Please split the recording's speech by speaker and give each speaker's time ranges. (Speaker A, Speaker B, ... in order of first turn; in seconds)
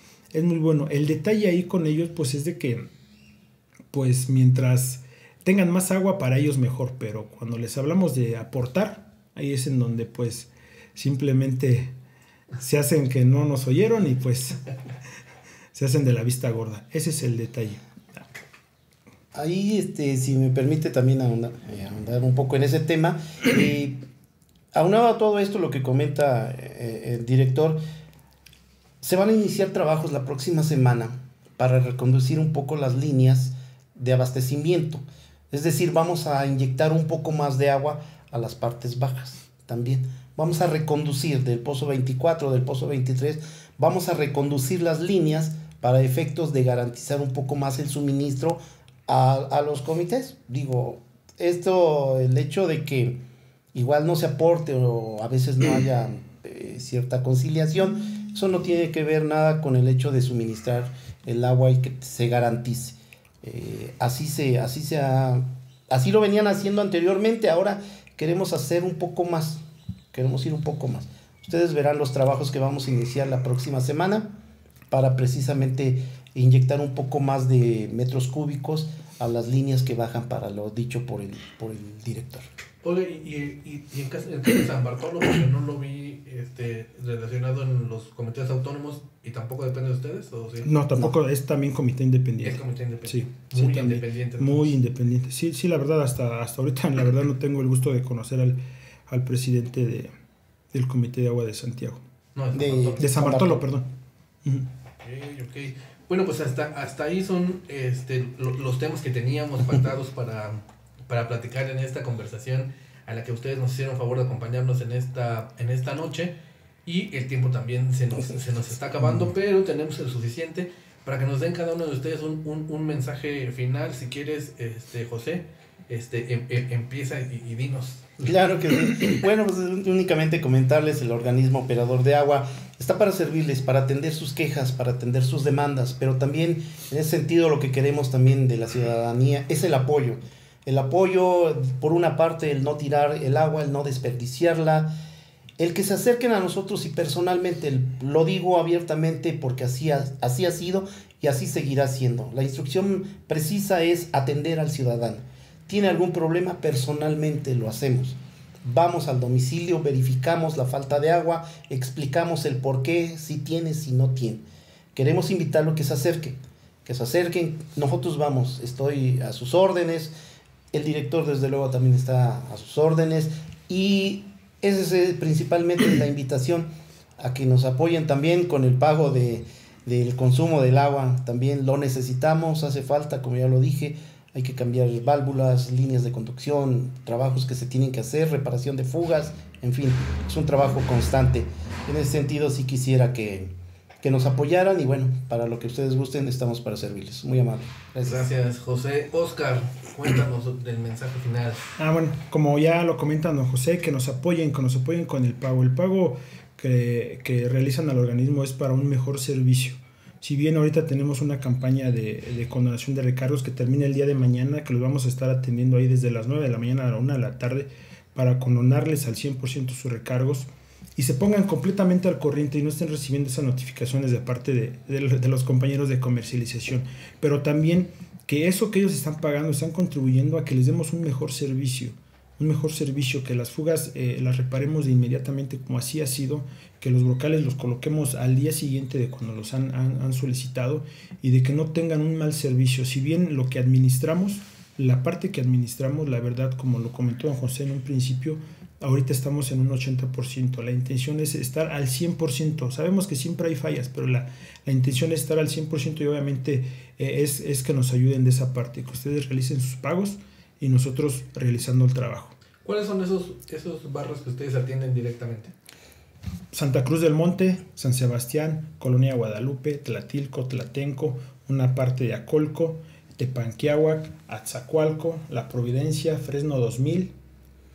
Speaker A: 0.3-2.9, 3.9-11.9, 12.6-14.6, 15.7-17.8, 90.6-100.1, 100.7-102.0, 103.0-103.9, 201.8-262.4, 266.5-277.1
Speaker B: 19.3-24.0, 24.7-27.8, 29.0-53.2, 53.7-69.6, 70.1-74.3, 74.9-82.5, 102.5-103.6, 128.2-144.9, 145.6-164.4, 164.9-170.1, 170.7-198.2
Speaker C: 82.8-90.7, 92.4-94.8, 102.3-103.1, 105.0-128.3, 198.0-201.7, 262.6-265.5